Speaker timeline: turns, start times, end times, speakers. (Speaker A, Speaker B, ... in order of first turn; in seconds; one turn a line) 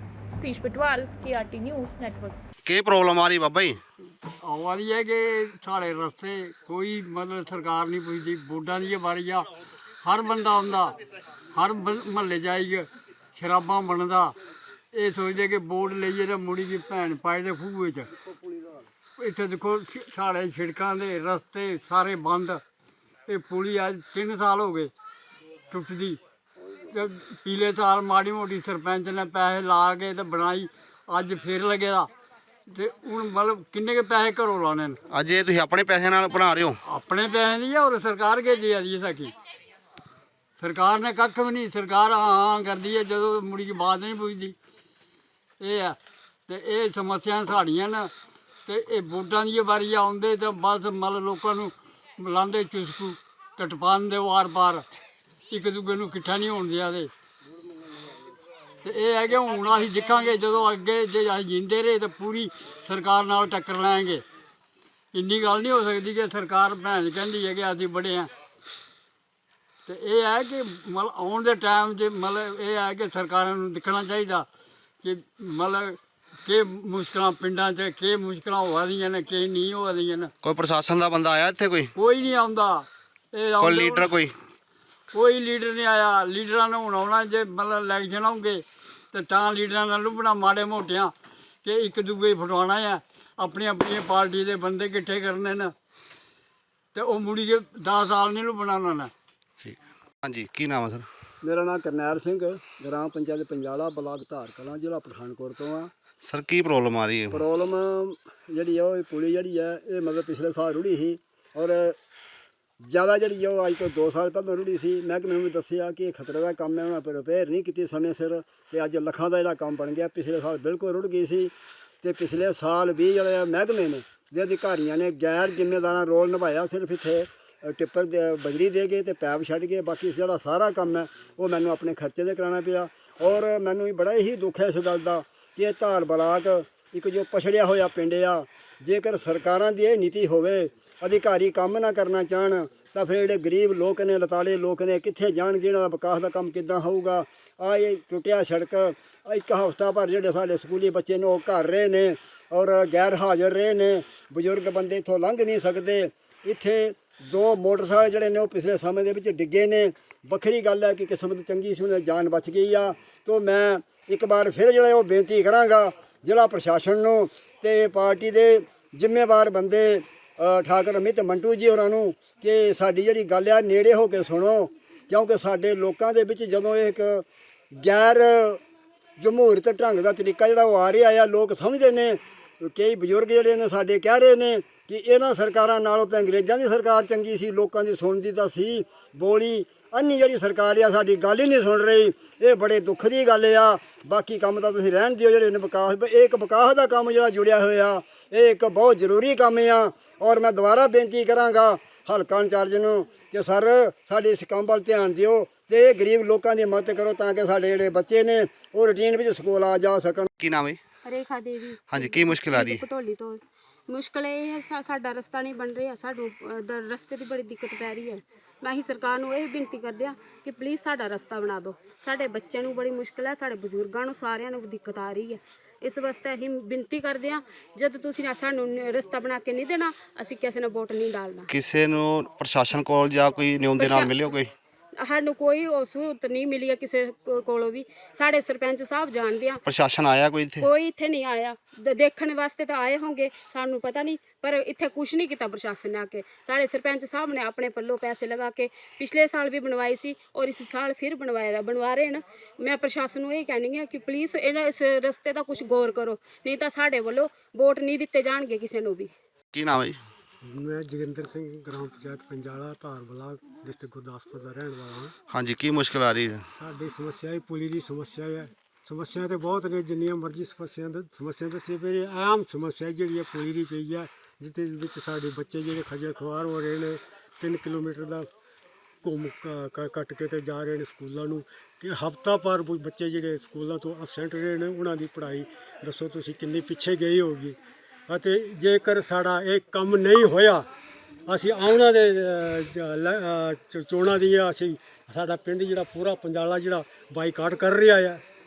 Speaker A: 0.3-2.4
Speaker B: 2.6-3.8
Speaker C: 4.4-9.5
Speaker C: 10.0-11.0
Speaker C: 11.6-14.3
Speaker C: 14.9-18.1
Speaker C: 19.2-22.6
Speaker C: 23.3-24.9
Speaker C: 25.7-26.2
Speaker C: 26.9-32.1
Speaker C: 32.7-35.0
Speaker B: 35.1-36.8
Speaker C: 36.9-39.3
Speaker C: 40.6-44.5
Speaker C: 45.6-46.0
Speaker C: 46.5-48.1
Speaker C: 48.7-54.8
Speaker C: 55.5-57.1
Speaker C: 58.8-64.2
Speaker C: 65.1-68.3
Speaker C: 69.9-74.5
Speaker C: 75.0-80.3
Speaker B: 80.4-81.9
Speaker C: 82.0-84.1
Speaker B: 83.6-84.3
Speaker C: 85.1-88.6
Speaker C: 89.1-91.1
Speaker C: 91.7-95.7
Speaker C: 96.9-99.1
Speaker B: 99.6-101.1
Speaker D: 101.4-105.9
Speaker B: 106.2-107.5
Speaker D: 107.3-112.0
Speaker D: 112.8-178.6
Speaker D: 179.2-210.3
Speaker B: 210.4-210.8
Speaker E: 211.1-231.5
Speaker B: 211.9-212.8
Speaker B: 231.5-234.5
Speaker E: 233.8-234.3
Speaker E: 235.0-239.6
Speaker B: 239.7-240.7
Speaker E: 240.6-259.1
Speaker B: 259.5-260.0
Speaker F: 260.4-265.1
Speaker B: 265.3-266.5
Speaker F: 266.5-278.3
Speaker F: 279.0-287.6
Speaker F: 288.1-290.7
Speaker F: 291.3-298.2